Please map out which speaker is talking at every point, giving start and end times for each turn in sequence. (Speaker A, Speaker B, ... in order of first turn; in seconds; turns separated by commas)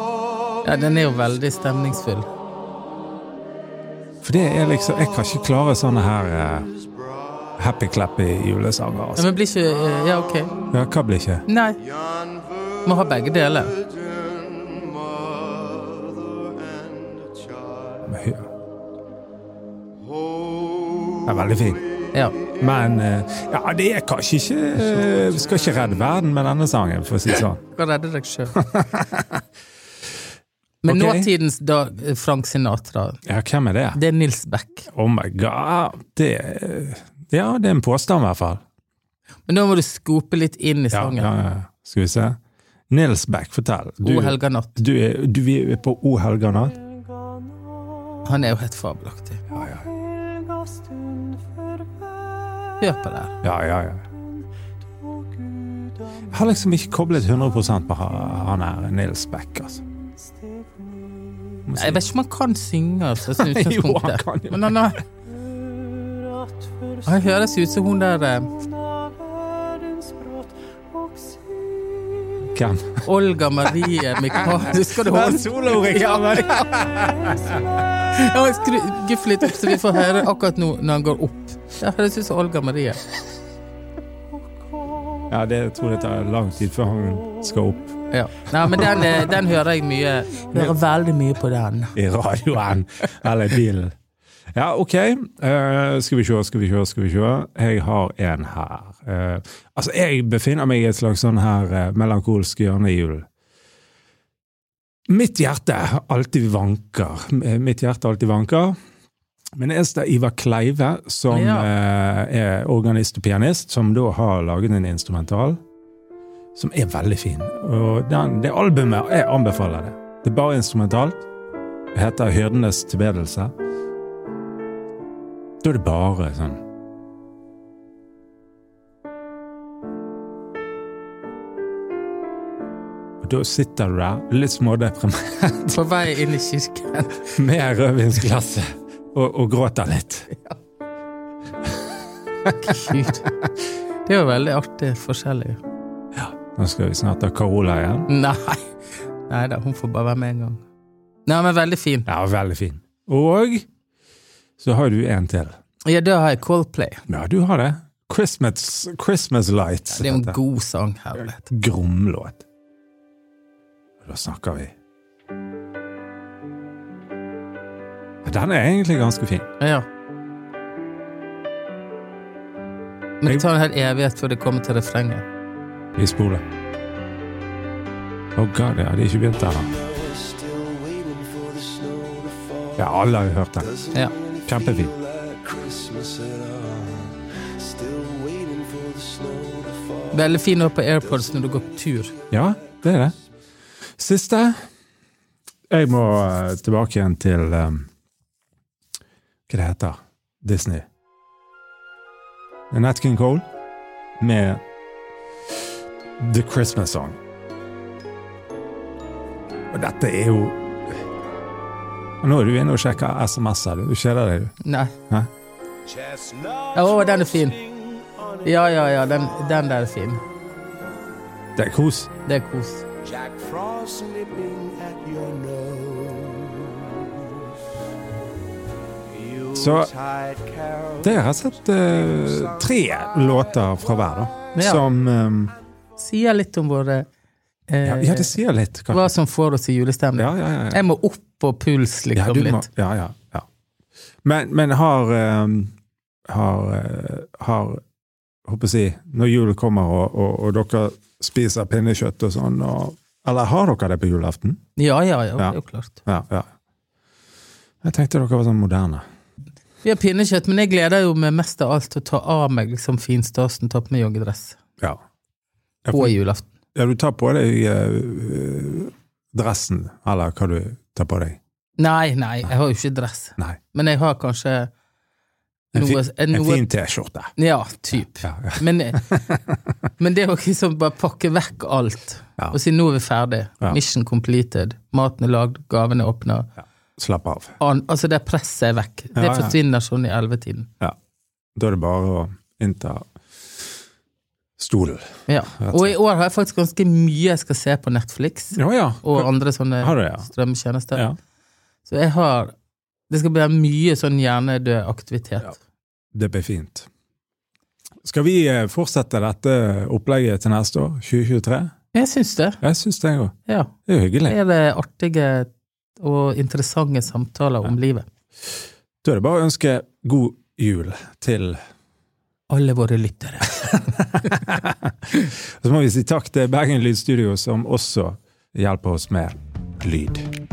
Speaker A: 0.6-2.3, Speaker B: 4.2-6.7, Speaker B: 7.6-9.3, Speaker A: 9.2-10.6, Speaker B: 10.7-11.4, Speaker A: 11.5-11.8, Speaker A: 12.8-13.9, Speaker C: 15.5-15.8, Speaker B: 18.1-18.5, Speaker B: 21.2-21.8, Speaker A: 22.1-22.4, Speaker B: 22.6-27.6, Speaker A: 27.7-28.6, Speaker B: 28.6-29.4, Speaker A: 30.8-33.2, Speaker B: 30.9-31.3, Speaker B: 33.3-34.0, Speaker A: 33.9-34.9, Speaker B: 34.9-38.6, Speaker A: 39.5-41.3, Speaker B: 40.9-42.4, Speaker B: 42.9-46.8, Speaker A: 44.0-44.8, Speaker A: 48.2-49.5, Speaker B: 49.5-49.9, Speaker A: 52.8-53.4, Speaker B: 53.4-54.1, Speaker B: 56.2-59.8, Speaker B: 61.7-62.0, Speaker A: 61.7-65.0, Speaker B: 63.4-64.8, Speaker A: 67.0-68.7, Speaker B: 72.4-73.0, Speaker A: 73.0-76.5, Speaker B: 74.5-77.7, Speaker A: 78.0-83.0, Speaker B: 85.3-87.9, Speaker A: 88.1-92.0, Speaker B: 88.7-89.1, Speaker B: 92.0-93.9, Speaker B: 94.5-103.3, Speaker B: 105.1-108.8, Speaker B: 109.6-115.6, Speaker A: 111.3-111.7, Speaker B: 116.6-121.2, Speaker B: 121.9-123.5, Speaker B: 125.6-126.6, Speaker B: 133.2-135.8, Speaker A: 135.7-137.4, Speaker B: 137.3-140.3, Speaker A: 142.6-143.3, Speaker A: 144.1-145.6, Speaker B: 146.2-148.1, Speaker A: 148.1-148.7, Speaker A: 149.3-150.6, Speaker A: 151.3-152.1, Speaker B: 152.1-153.7, Speaker B: 154.6-155.6, Speaker A: 155.9-157.0, Speaker B: 157.1-160.4, Speaker A: 159.9-161.5, Speaker B: 161.4-162.4, Speaker B: 164.0-164.7, Speaker B: 168.2-169.5, Speaker A: 169.6-169.9, Speaker A: 173.2-175.2, Speaker B: 176.0-176.4, Speaker B: 178.4-179.8, Speaker C: 180.1-182.7, Speaker B: 182.8-183.9, Speaker A: 183.9-184.2, Speaker B: 184.5-185.1, Speaker C: 185.1-186.8, Speaker C: 187.7-190.1, Speaker A: 190.1-192.2, Speaker B: 192.3-193.2, Speaker B: 194.0-194.6, Speaker B: 195.7-197.9, Speaker B: 199.5-200.9, Speaker B: 202.7-203.5, Speaker B: 204.2-204.6, Speaker B: 206.2-207.2, Speaker B: 209.7-210.9, Speaker B: 212.2-214.5, Speaker A: 214.6-214.9, Speaker C: 216.0-216.6, Speaker A: 216.7-217.7, Speaker A: 218.4-220.2, Speaker B: 221.6-222.1, Speaker A: 222.3-222.9, Speaker C: 223.2-226.8, Speaker B: 229.5-230.0, Speaker C: 230.1-230.8, Speaker B: 231.0-235.6, Speaker A: 234.6-234.8, Speaker A: 236.0-237.1, Speaker A: 237.7-238.4, Speaker B: 237.8-239.1, Speaker A: 238.9-242.7, Speaker B: 240.2-240.8, Speaker B: 242.2-243.5, Speaker B: 244.2-245.7, Speaker B: 246.3-247.8, Speaker B: 248.5-254.6, Speaker A: 254.8-256.0, Speaker B: 255.4-256.5, Speaker B: 257.8-259.0, Speaker A: 259.8-264.6, Speaker B: 265.9-266.2, Speaker A: 265.9-266.4, Speaker B: 266.8-271.4, Speaker A: 271.8-274.7, Speaker A: 275.7-276.7, Speaker B: 275.7-277.3, Speaker A: 277.4-279.1, Speaker B: 278.2-279.5, Speaker A: 280.0-286.5, Speaker B: 287.0-287.6, Speaker A: 287.6-290.7, Speaker B: 289.1-289.6, Speaker B: 291.6-293.1, Speaker B: 294.6-295.9, Speaker A: 295.3-301.1, Speaker B: 298.6-299.3, Speaker B: 299.8-300.3, Speaker A: 301.9-302.5, Speaker A: 303.1-305.6, Speaker B: 306.1-306.9, Speaker B: 308.0-311.7, Speaker A: 311.9-312.6, Speaker B: 312.6-313.4, Speaker A: 313.5-313.7, Speaker B: 313.9-314.4, Speaker A: 314.3-318.1, Speaker B: 319.0-321.6, Speaker A: 322.5-323.8, Speaker B: 324.0-330.3